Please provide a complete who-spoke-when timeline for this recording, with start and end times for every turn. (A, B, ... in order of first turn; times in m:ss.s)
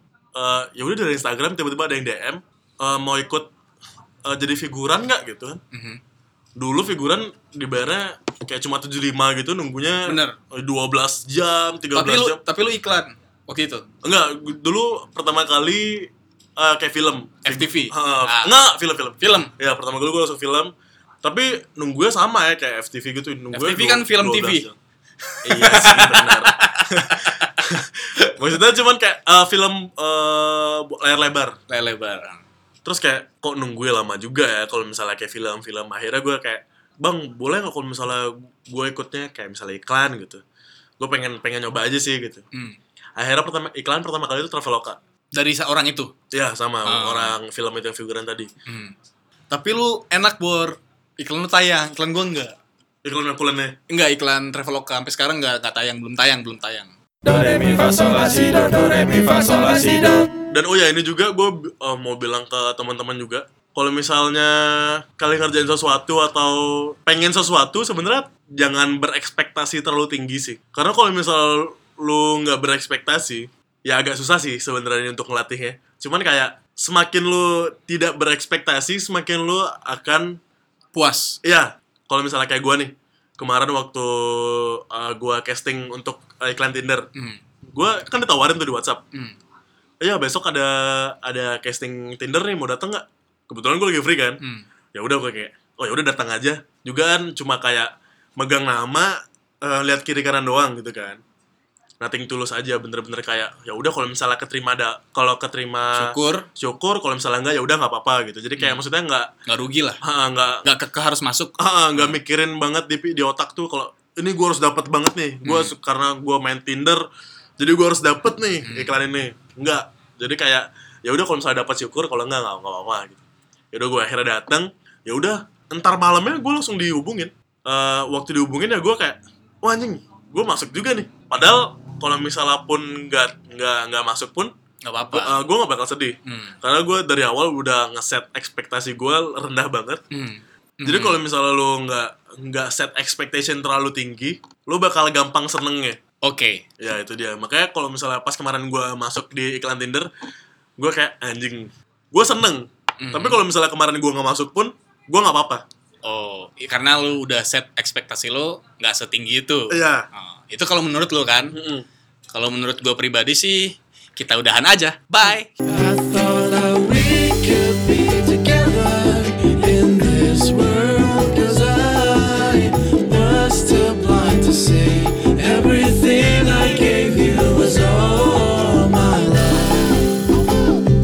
0:00.4-0:03.5 A
0:04.2-0:05.6 A
0:05.7-0:06.0 B
0:06.6-0:12.4 A
0:10.1-0:10.4 B
0:11.9-0:13.9 B
0:14.0-0:20.7 A
0:17.4-0:18.6 B
0:19.2-0:19.5 B
0:21.2-0:24.8 A
0:23.5-0:24.7 B
0:25.3-0:27.6 B
0:25.4-0:31.6 A
0:31.7-0:32.4 B
0:32.8-0:40.4 A
0:41.0-0:42.4 A
0:42.5-0:42.8 B
0:43.2-0:45.0 A
0:45.4-0:46.1 B
0:46.3-0:48.5 A
0:46.8-0:47.4 B
0:48.7-0:48.9 B
0:49.5-0:52.6 B
0:53.0-0:53.8 A
0:53.9-1:00.3 B
0:57.3-1:00.2 C
1:00.5-1:20.4 A
1:20.9-1:21.4 B
1:21.4-1:27.1 A
1:27.2-1:27.4 B
1:27.7-1:29.0 A
1:30.0-1:34.4 A
1:34.4-1:34.7 B
1:34.9-1:41.2 A
1:42.0-1:49.3 A
1:45.9-1:46.5 B
1:48.6-1:48.8 B
1:49.5-1:50.0 B
1:50.0-1:50.7 A
1:50.6-1:52.2 B
1:51.6-1:57.0 A
1:55.4-1:55.7 B
1:57.6-2:14.5 A
1:58.6-1:59.0 B
2:14.8-2:15.4 B
2:15.1-2:20.0 A
2:16.3-2:16.6 B
2:20.1-2:21.2 B
2:20.8-2:26.0 A
2:26.2-2:26.6 B
2:26.8-2:30.1 A
2:30.8-2:35.6 A
2:33.0-2:33.4 B
2:36.0-2:41.6 B
2:39.7-2:40.1 A
2:41.5-2:41.9 A
2:42.3-2:45.6 B
2:45.7-2:59.9 C